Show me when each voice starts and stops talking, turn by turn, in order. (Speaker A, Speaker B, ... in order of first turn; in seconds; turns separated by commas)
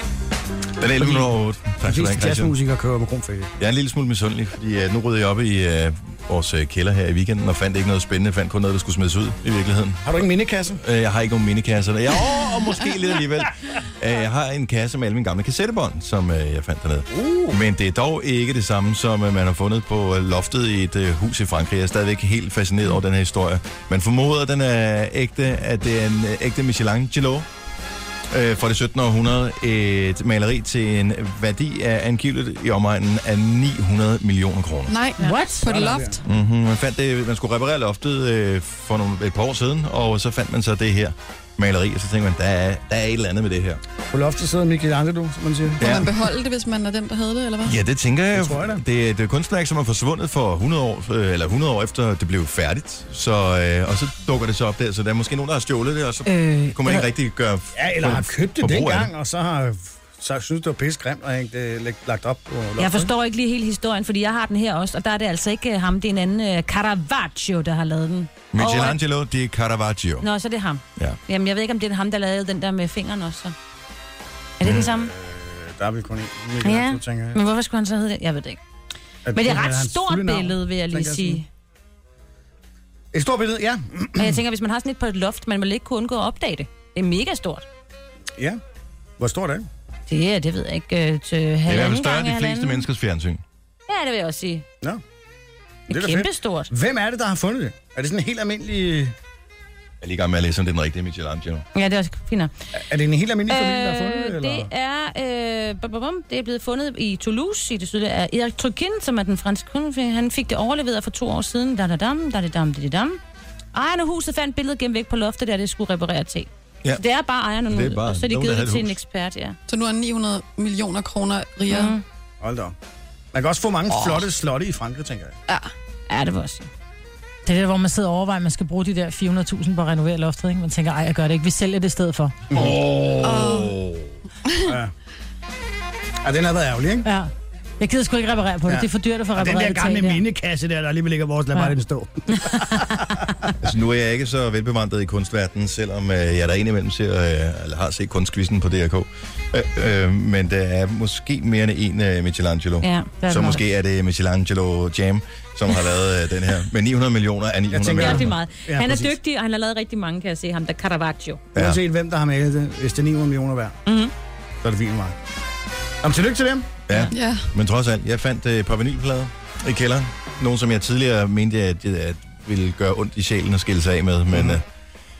Speaker A: 0.8-2.5, Speaker B: 1.0-3.5, Speaker A: 3.6-10.1, Speaker B: 10.0-10.8, Speaker A: 10.8-27.4, Speaker B: 17.1-17.6, Speaker A: 28.3-34.9, Speaker C: 34.9-36.2, Speaker D: 35.2-35.7, Speaker B: 35.6-36.2, Speaker A: 36.2-43.8, Speaker B: 44.1-45.9, Speaker C: 45.8-47.8, Speaker A: 45.8-46.1, Speaker A: 47.6-59.1, Speaker B: 48.3-48.8, Speaker E: 56.3-57.0, Speaker B: 57.8-63.1, Speaker E: 62.8-69.0, Speaker A: 68.5-70.3, Speaker E: 70.2-73.5, Speaker E: 74.6-75.1, Speaker A: 74.6-74.9, Speaker B: 74.8-77.4, Speaker E: 76.6-78.6, Speaker B: 79.2-81.4, Speaker E: 79.3-81.5, Speaker B: 83.1-84.4, Speaker E: 84.2-87.6, Speaker B: 89.2-89.7, Speaker E: 90.1-92.8, Speaker A: 91.7-93.4, Speaker E: 93.9-94.6, Speaker E: 95.9-96.7, Speaker B: 95.9-99.1, Speaker A: 100.0-101.6, Speaker E: 101.7-102.5, Speaker B: 102.7-104.7, Speaker E: 103.5-113.2, Speaker E: 113.7-119.6, Speaker A: 117.7-119.0, Speaker C: 119.7-121.9, Speaker E: 121.7-122.0, Speaker B: 122.4-122.7, Speaker B: 123.3-125.4, Speaker E: 126.1-126.7, Speaker D: 127.5-132.4, Speaker B: 132.5-133.7, Speaker A: 132.6-132.9, Speaker C: 133.2-133.8, Speaker C: 134.4-134.8, Speaker B: 134.6-134.9, Speaker B: 136.2-137.1, Speaker D: 137.0-140.2, Speaker B: 138.7-143.5, Speaker A: 143.6-158.3, Speaker E: 152.8-153.6, Speaker D: 153.2-153.6, Speaker B: 157.7-159.2, Speaker E: 157.9-161.4, Speaker B: 161.5-163.8, Speaker E: 163.8-164.1, Speaker B: 164.6-165.2, Speaker B: 166.0-166.7, Speaker A: 166.9-174.6, Speaker C: 167.1-167.5, Speaker B: 174.3-174.6